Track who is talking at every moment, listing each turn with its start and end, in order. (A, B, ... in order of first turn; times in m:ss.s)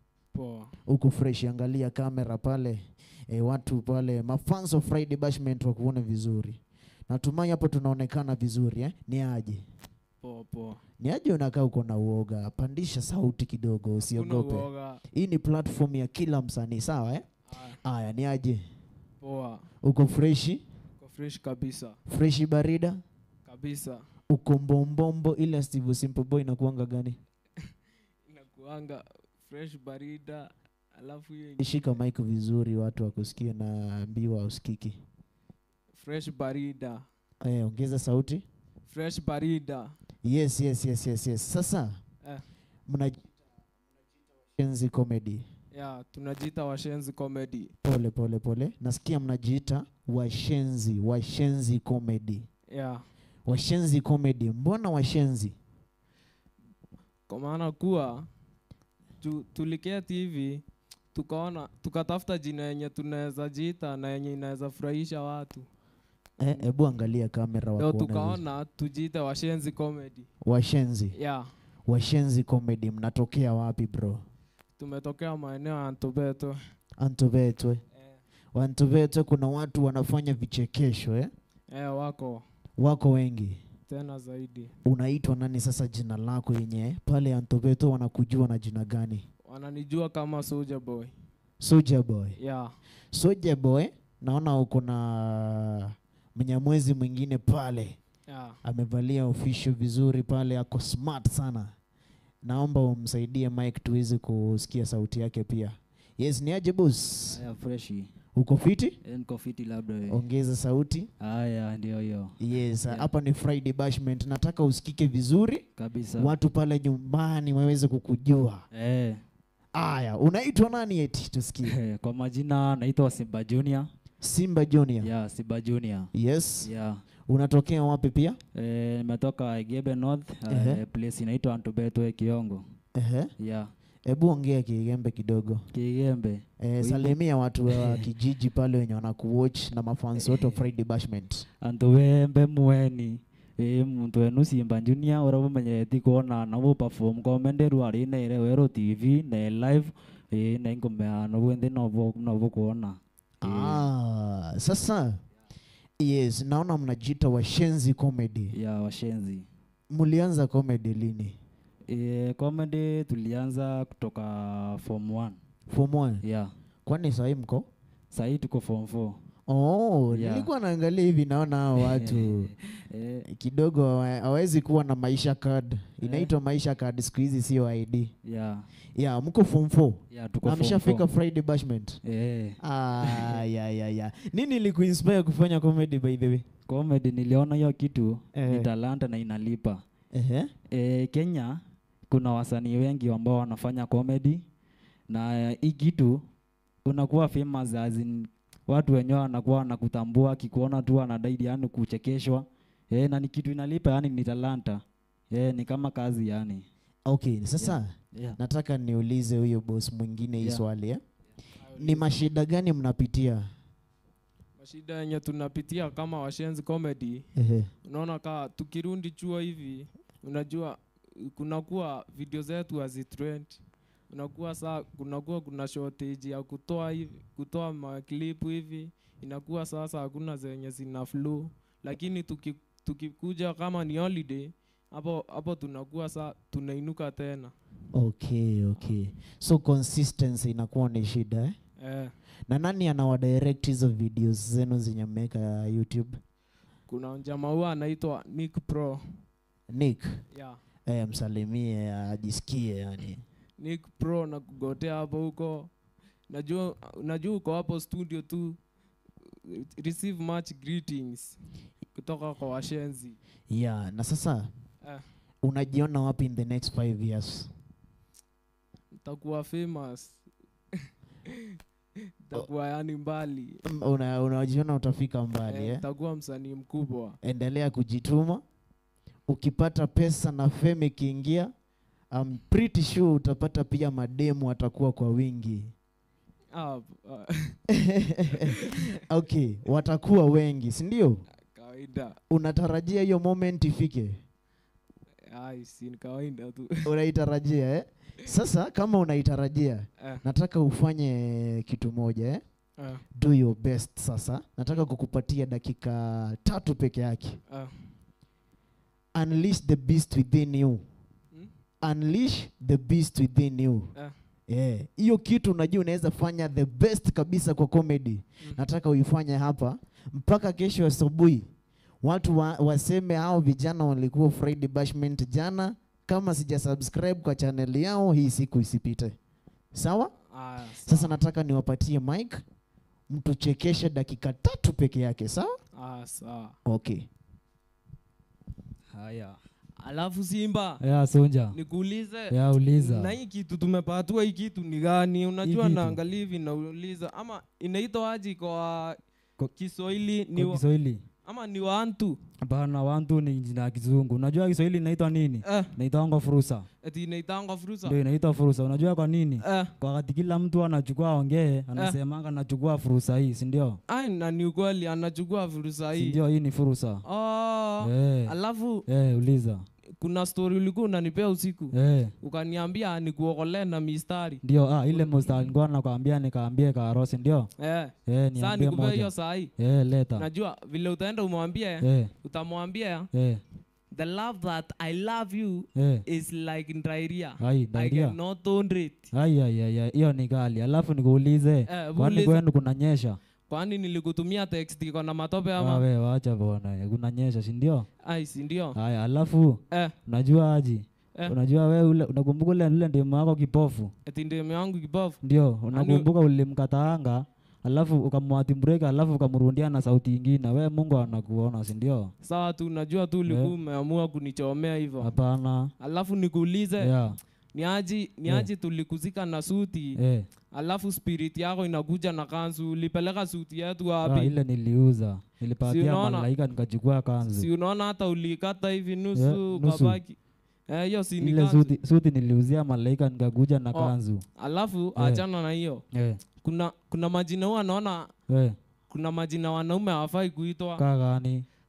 0:00.3-0:00.7 A
0:00.9-0:09.6 B
0:10.2-0:10.8 A
0:11.0-0:17.3 B
0:14.0-0:15.0 A
0:17.5-0:17.8 A
0:17.8-0:18.6 B
0:19.2-0:19.6 A
0:19.8-0:20.6 B
0:21.0-0:22.0 A
0:22.1-0:23.0 B
0:23.5-0:24.0 A
0:24.3-0:27.2 B
0:28.3-0:31.8 A
0:31.6-0:35.0 B
0:36.0-0:37.0 A
0:37.4-0:38.4 B
0:38.9-0:39.9 A
0:40.2-0:42.0 B
0:42.9-0:43.2 B
0:44.6-0:45.4 B
0:45.7-0:47.7 A
0:47.8-0:52.4 B
0:52.7-0:53.0 A
0:53.4-0:55.5 B
0:57.3-0:58.3 A
0:59.2-1:00.6 A
1:01.1-1:05.6 A
1:06.4-1:08.4 B
1:07.8-1:10.3 A
1:10.4-1:11.2 B
1:11.1-1:11.5 A
1:11.9-1:14.2 B
1:14.8-1:16.6 A
1:17.0-1:17.8 B
1:18.5-1:21.3 B
1:21.7-1:22.4 A
1:22.8-1:23.6 B
1:23.9-1:24.7 A
1:24.8-1:29.2 B
1:29.4-1:31.1 A
1:31.6-1:32.4 B
1:32.4-1:32.7 A
1:33.1-1:38.0 B
1:38.3-1:38.6 A
1:38.6-1:41.7 B
1:42.4-1:47.4 B
1:47.3-1:48.1 C
1:48.3-1:49.0 B
1:49.0-1:50.2 C
1:50.1-1:51.1 B
1:51.2-1:52.4 C
1:52.4-1:55.6 B
1:55.8-1:56.3 C
1:56.2-1:58.6 B
1:58.7-1:59.2 C
1:59.7-2:01.7 B
2:01.6-2:03.9 C
2:04.2-2:05.1 B
2:05.0-2:06.1 C
2:06.1-2:06.7 B
2:06.6-2:07.0 C
2:07.3-2:08.4 B
2:08.5-2:12.6 C
2:10.5-2:10.8 B
2:13.0-2:13.3 B
2:13.4-2:13.7 C
2:14.1-2:15.6 B
2:15.7-2:17.2 C
2:16.6-2:21.4 B
2:17.7-2:18.0 C
2:20.3-2:20.6 C
2:21.6-2:33.8 C
2:33.4-2:35.2 B
2:36.0-2:38.6 B
2:38.5-2:39.4 C
2:39.9-2:41.4 B
2:41.9-2:45.4 C
2:45.7-2:46.2 B
2:46.2-2:46.5 C
2:46.8-2:47.6 B
2:48.1-2:49.2 C
2:49.5-2:52.5 B
2:50.1-2:50.5 C
2:51.8-2:53.2 C
2:53.3-2:58.1 B
2:56.0-2:56.3 C
2:58.2-2:58.6 C
2:59.0-3:02.0 B
3:00.1-3:01.0 C
3:02.0-3:03.4 C
3:02.6-3:06.4 B
3:06.7-3:09.8 C
3:08.3-3:08.7 B
3:10.1-3:10.5 B
3:10.7-3:14.4 C
3:15.1-3:16.2 C
3:16.8-3:26.6 C
3:27.0-3:31.0 B
3:27.6-3:28.4 C
3:31.6-3:32.1 A
3:31.8-3:33.5 B
3:34.6-3:37.2 A
3:37.4-3:37.7 B
3:37.8-3:57.5 A
3:57.9-4:01.6 B
4:01.8-4:02.1 A
4:02.5-4:06.2 B
4:06.9-4:09.2 A
4:09.7-4:10.2 B
4:10.3-4:10.6 A
4:10.9-4:13.2 B
4:13.6-4:15.7 A
4:16.3-4:18.6 A
4:19.2-4:21.4 A
4:21.9-4:23.2 A
4:23.5-4:24.5 B
4:25.4-4:27.5 B
4:29.0-4:30.2 A
4:30.7-4:31.6 A
4:32.2-4:33.6 A
4:33.6-4:35.8 B
4:35.5-4:37.2 A
4:37.2-4:38.4 B
4:39.3-4:41.5 B
4:42.1-4:45.7 B
4:46.5-4:47.6 A
4:47.7-4:51.2 B
4:48.4-4:48.8 A
4:51.5-4:52.2 A
4:52.3-4:54.1 B
4:55.3-4:56.8 A
4:56.8-5:02.4 B
5:02.8-5:03.0 A
5:03.1-5:07.4 B
5:07.5-5:07.9 A
5:09.1-5:10.8 B
5:11.8-5:13.9 B
5:14.5-5:21.4 B
5:22.0-5:29.1 B
5:29.7-5:30.1 B
5:30.3-5:31.2 A
5:30.8-5:32.4 B
5:33.1-5:35.6 B
5:35.7-5:36.5 A
5:36.6-5:37.1 B
5:38.9-5:39.4 C
5:39.8-5:40.8 A
5:40.8-5:41.6 C
5:41.5-5:49.0 A
5:42.3-5:43.2 C
5:45.4-5:46.0 C
5:49.5-5:50.6 A
5:50.3-5:51.0 C
5:51.2-5:52.2 A
5:52.4-5:56.7 C
5:55.4-5:55.7 A
5:56.8-5:58.0 A
5:57.8-6:03.8 C
5:59.4-5:59.7 A
6:03.9-6:06.2 A
6:05.9-6:07.0 C
6:07.0-6:08.8 A
6:07.8-6:08.3 C
6:08.9-6:09.6 C
6:10.0-6:15.4 A
6:11.7-6:12.1 C
6:14.4-6:17.5 C
6:17.6-6:19.5 A
6:18.1-6:20.3 C
6:20.2-6:23.1 A
6:21.8-6:22.1 C
6:23.1-6:23.4 C
6:23.9-6:29.1 A
6:25.8-6:26.0 C
6:27.4-6:28.2 C
6:29.1-6:33.2 C
6:31.7-6:32.4 A
6:33.5-6:35.8 A
6:35.6-6:37.9 C
6:38.0-6:38.8 A
6:38.7-6:43.9 C
6:44.0-6:45.2 A
6:45.2-6:52.1 C
6:45.7-6:46.1 A
6:52.2-6:55.1 A
6:53.3-6:53.5 C
6:55.0-6:55.7 C
6:55.8-6:56.9 A
6:56.8-6:57.2 C
6:57.5-7:00.0 A
7:00.0-7:00.2 C
7:00.5-7:04.4 A
7:04.0-7:07.5 C
7:05.6-7:06.3 A
7:07.3-7:10.2 A
7:09.1-7:10.0 C
7:10.7-7:11.8 A
7:11.2-7:14.2 C
7:13.7-7:15.8 A
7:15.0-7:15.2 C
7:15.9-7:16.2 C
7:16.4-7:18.1 A
7:18.3-7:18.6 C
7:18.9-7:20.8 A
7:20.8-7:21.4 C